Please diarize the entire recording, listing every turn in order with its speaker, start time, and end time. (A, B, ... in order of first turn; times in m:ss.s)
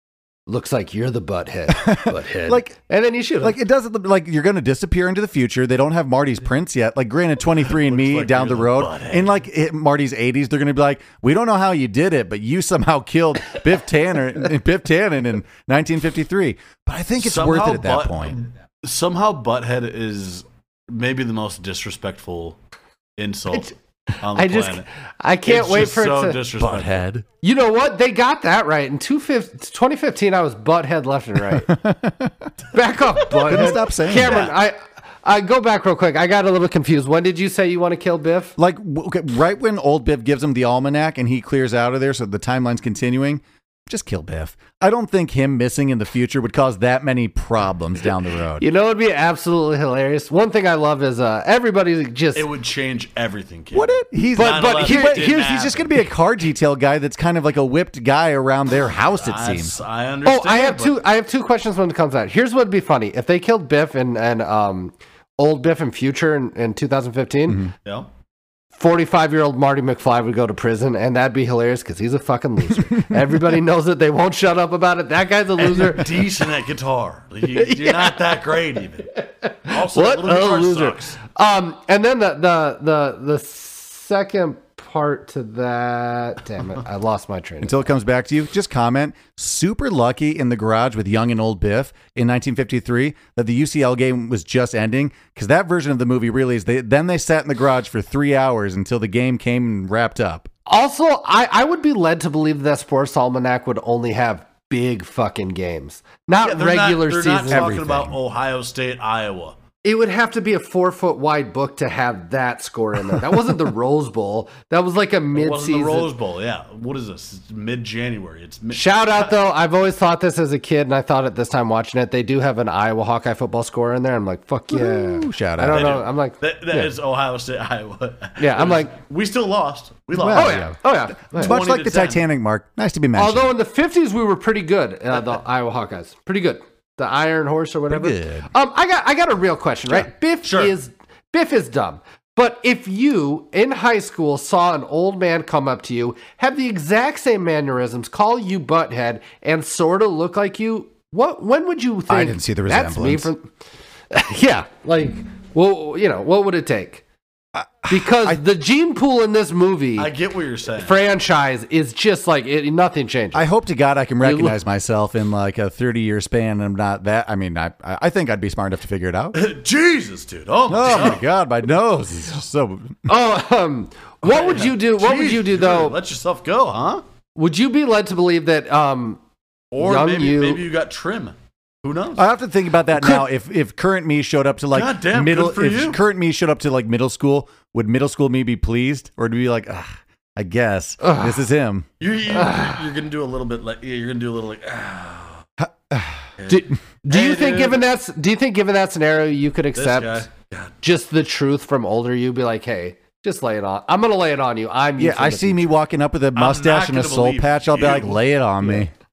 0:00.5-0:03.6 A
0:01.8-0:02.7 B
0:03.4-0:18.4 B
0:07.7-0:09.4 C
0:17.2-0:22.6 C
0:23.2-0:24.9 C
0:23.5-0:26.4 A
0:25.4-0:27.0 C
0:26.6-0:27.2 B
0:27.4-0:31.7 A
0:31.6-0:32.5 B
0:32.7-0:38.6 A
0:33.5-0:34.5 B
0:33.5-0:34.6 C
0:38.6-0:48.6 B
0:48.6-0:52.5 A
0:52.4-0:55.9 C
0:53.7-0:59.8 B
0:54.4-0:55.5 A
0:59.2-1:01.0 C
1:00.2-1:07.7 A
1:08.8-1:16.3 A
1:12.9-1:13.2 B
1:15.6-1:21.2 C
1:17.5-1:18.2 A
1:19.4-1:27.9 A
1:27.6-1:40.5 B
1:40.7-1:47.7 A
1:46.4-1:49.6 C
1:47.5-1:48.2 B
1:49.8-1:56.1 A
1:55.3-1:59.4 C
1:58.7-2:06.4 A
2:04.7-2:06.0 B
2:05.7-2:10.7 C
2:08.4-2:08.9 A
2:10.2-2:13.5 B
2:10.3-2:11.6 A
2:11.3-2:12.2 C
2:13.2-2:33.5 A
2:17.9-2:18.5 B
2:20.4-2:20.7 C
2:32.1-2:33.3 B
2:34.1-2:37.0 A
2:37.6-2:38.4 B
2:37.9-2:40.1 A
2:40.0-2:41.0 C
2:40.8-2:43.5 A
2:43.3-2:49.4 B
2:44.2-2:44.6 A
2:49.4-2:51.2 C
2:50.7-2:53.0 B
2:53.1-2:56.0 A
2:54.2-2:57.0 C
2:57.4-2:59.2 A
2:59.7-3:02.3 C
2:59.8-3:00.6 A
3:02.2-3:11.9 B
3:03.0-3:03.2 A
3:04.7-3:06.0 C
3:11.0-3:11.3 A
3:12.0-3:15.4 C
3:15.6-3:16.3 B
3:16.4-3:17.8 C
3:16.5-3:20.3 A
3:19.8-3:20.7 C
3:20.8-3:25.8 A
3:25.0-3:28.9 B
3:26.4-3:28.2 C